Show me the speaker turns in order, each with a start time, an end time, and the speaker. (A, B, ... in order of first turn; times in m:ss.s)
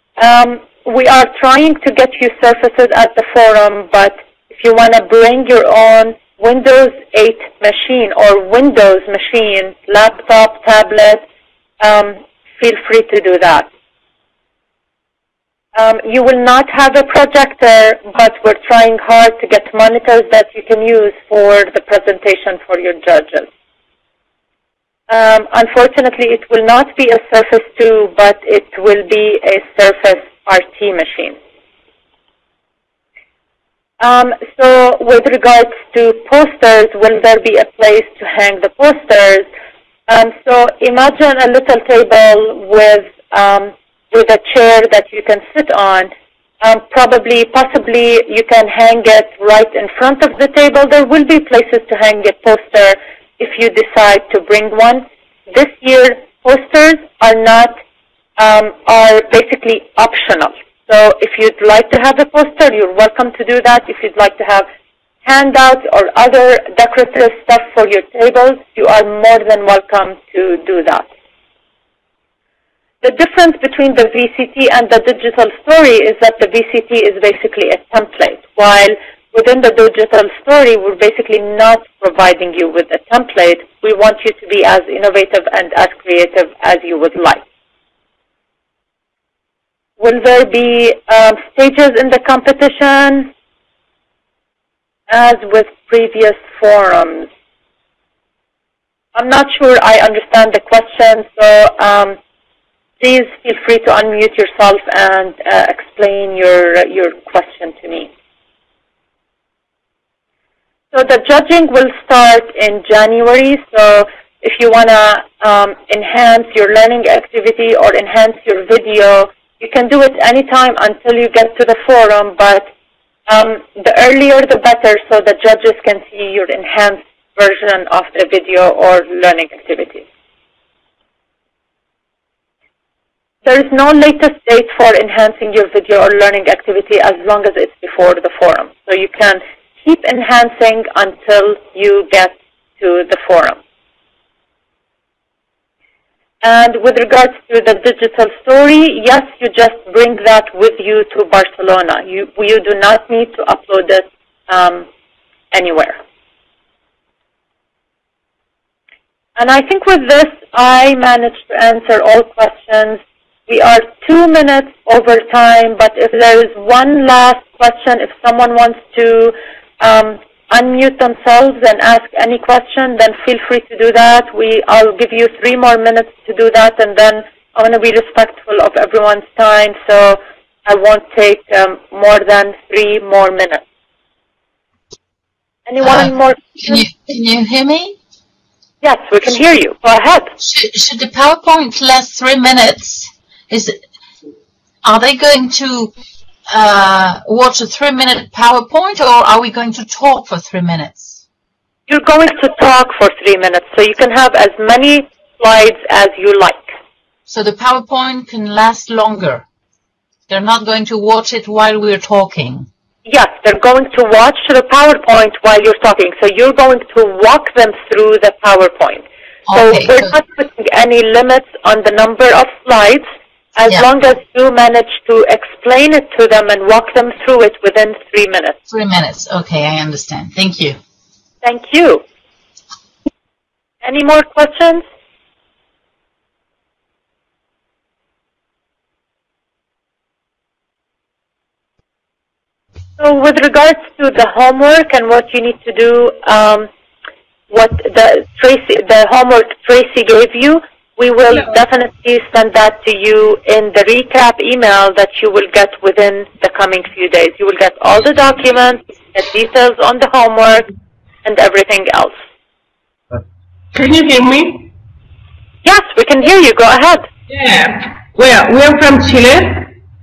0:00.2-0:11.2 A
0:11.8-0:13.7 A
0:15.8-0:23.5 A
0:25.1-0:31.4 A
0:34.0-0:39.5 A
0:40.1-0:46.1 A
0:46.6-0:57.8 A
0:58.4-1:04.7 A
1:05.2-1:11.1 A
1:13.0-1:27.4 A
1:30.0-1:33.3 A
1:35.1-1:37.3 A
1:39.2-1:42.2 A
1:43.0-1:48.1 A
1:50.9-2:02.7 A
2:03.3-2:10.0 A
2:13.4-2:23.6 A
2:26.4-2:34.9 A
2:35.5-2:36.0 A
2:39.4-3:03.6 A
3:05.7-3:06.8 A
3:05.8-3:06.1 B
3:06.6-3:08.0 B
3:08.8-3:10.3 A
3:10.4-3:13.8 B
3:14.8-3:15.9 B
3:16.5-3:21.2 B
3:21.9-3:26.7 A
3:27.3-3:29.5 B
3:30.3-3:32.7 B
3:33.1-3:48.6 A
3:39.5-3:40.2 B
3:48.7-3:50.8 B
3:51.4-3:52.0 A
3:53.8-3:54.8 A
4:03.0-4:06.7 A
4:07.5-4:20.7 A
4:21.2-4:22.2 A
4:23.7-4:24.7 C
4:25.6-4:27.1 A
4:27.3-4:29.7 C